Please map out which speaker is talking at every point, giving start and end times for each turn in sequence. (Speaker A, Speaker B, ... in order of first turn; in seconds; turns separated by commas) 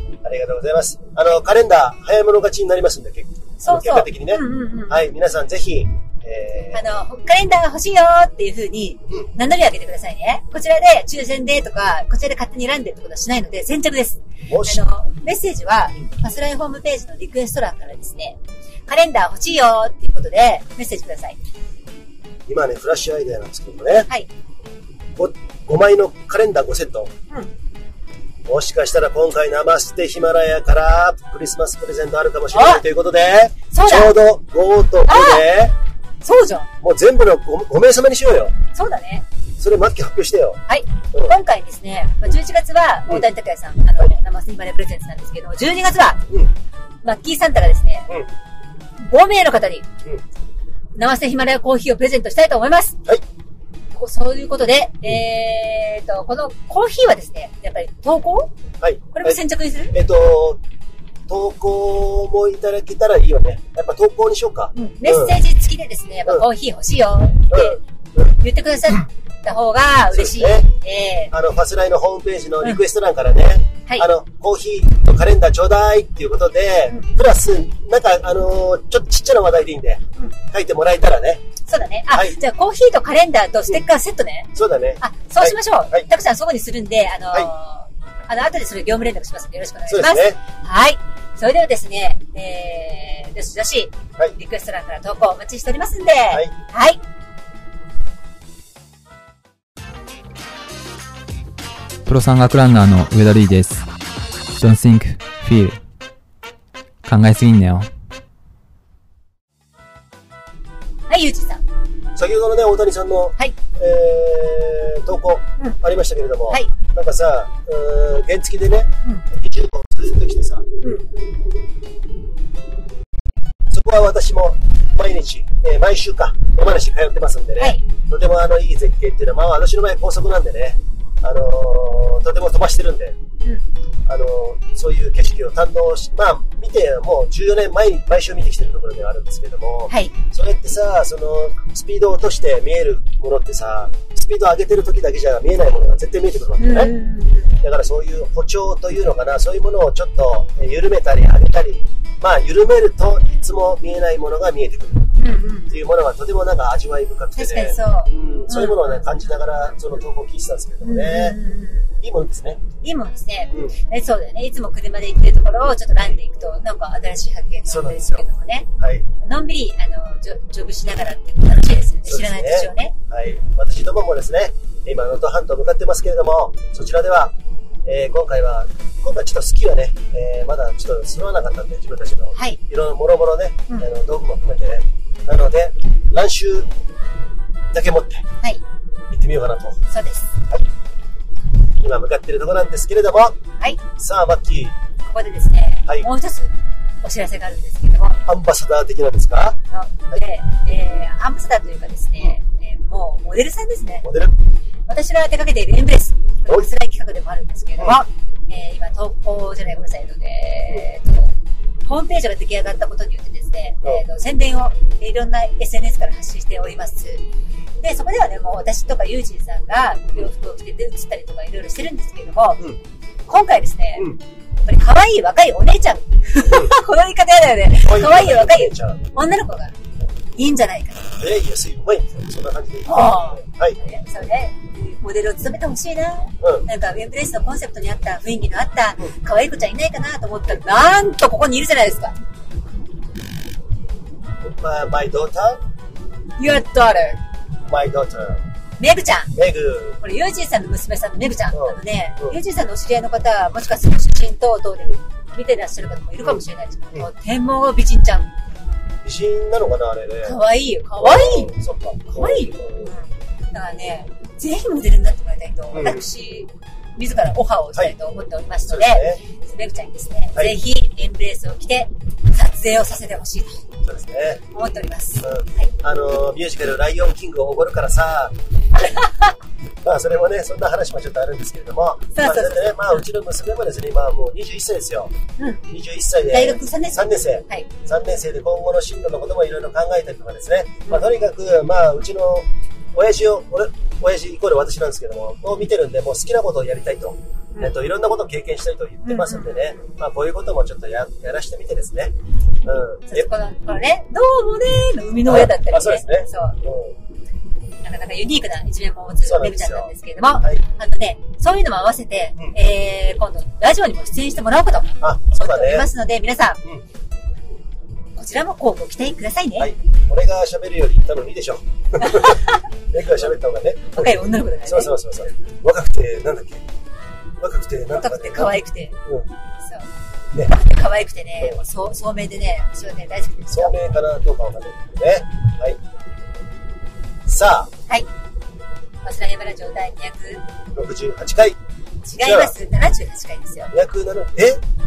Speaker A: 0.2-6.9, Speaker B: 3.6-5.0, Speaker B: 6.7-21.4, Speaker A: 14.5-14.8, Speaker A: 22.5-24.1, Speaker A: 25.1-27.1, Speaker A: 28.4-35.8, Speaker B: 32.5-32.8, Speaker B: 33.7-34.2, Speaker B: 35.1-35.5, Speaker B: 36.2-36.7, Speaker A: 36.8-38.5, Speaker B: 38.7-39.2, Speaker A: 39.6-40.6, Speaker B: 40.7-46.2, Speaker B: 47.0-48.1, Speaker B: 49.0-49.9, Speaker B: 51.0-53.0, Speaker B: 53.9-58.5, Speaker A: 58.8-60.6, Speaker B: 59.1-59.9, Speaker A: 61.3-65.4, Speaker B: 64.7-67.8, Speaker A: 67.5-68.3, Speaker B: 68.4-71.3, Speaker A: 70.1-70.7, Speaker A: 71.3-81.4, Speaker B: 81.7-97.0, Speaker A: 82.1-82.4, Speaker A: 84.5-86.1, Speaker A: 89.9-90.4, Speaker C: 102.0-103.9, Speaker C: 104.5-105.8, Speaker C: 107.0-107.9, Speaker B: 111.1-111.6, Speaker A: 112.2-120.7, Speaker A: 123.7-133.2, Speaker A: 134.1-146.9, Speaker B: 139.9-140.1, Speaker B: 146.6-147.5, Speaker A: 147.6-155.1, Speaker B: 155.2-155.8, Speaker A: 155.7-161.4, Speaker B: 157.3-159.0, Speaker B: 160.8-161.9, Speaker A: 162.0-162.6, Speaker B: 162.8-168.7, Speaker A: 167.7-168.2, Speaker A: 168.8-169.1, Speaker B: 169.2-172.9, Speaker A: 172.1-177.3, Speaker A: 177.8-186.7, Speaker A: 187.7-188.3, Speaker A: 189.1-189.8, Speaker B: 189.9-190.3, Speaker A: 191.8-193.4, Speaker A: 193.9-194.8, Speaker B: 195.1-198.2, Speaker A: 198.2-199.6, Speaker B: 199.7-204.1, Speaker A: 204.0-204.3, Speaker B: 204.9-211.3, Speaker A: 207.8-208.0, Speaker B: 211.8-217.2, Speaker B: 217.8-222.6, Speaker B: 223.3-224.1, Speaker B: 224.6-229.7, Speaker A: 226.4-226.8, Speaker A: 227.8-229.1, Speaker B: 230.3-231.1, Speaker A: 231.2-233.8, Speaker B: 232.8-242.1, Speaker A: 236.4-236.7, Speaker A: 244.4-245.6, Speaker B: 246.4-247.2, Speaker A: 247.6-248.4, Speaker B: 248.8-249.3, Speaker A: 249.3-250.0, Speaker B: 250.0-258.3, Speaker A: 251.5-252.4, Speaker A: 259.0-260.4, Speaker B: 260.2-261.5, Speaker A: 261.0-262.9, Speaker B: 262.2-273.6, Speaker A: 265.7-266.1, Speaker A: 268.7-269.2, Speaker A: 273.8-274.4, Speaker B: 274.5-275.7, Speaker A: 275.2-278.4, Speaker B: 278.8-279.3, Speaker A: 279.8-285.1, Speaker B: 282.1-283.0, Speaker A: 285.7-303.3, Speaker B: 286.3-287.7, Speaker B: 299.0-299.8, Speaker B: 303.1-306.6, Speaker A: 305.2-306.9, Speaker B: 307.8-316.6, Speaker A: 309.2-310.6, Speaker A: 315.0-315.9, Speaker B: 318.1-319.7, Speaker A: 319.6-326.6, Speaker B: 322.0-322.6, Speaker B: 323.9-325.3, Speaker A: 327.4-329.3, Speaker B: 327.9-329.0, Speaker B: 329.6-329.9, Speaker B: 330.4-333.8, Speaker A: 333.5-335.8, Speaker A: 337.2-337.7, Speaker B: 339.0-340.4, Speaker A: 340.7-341.6, Speaker B: 342.1-343.7, Speaker A: 342.2-342.5, Speaker A: 343.7-344.6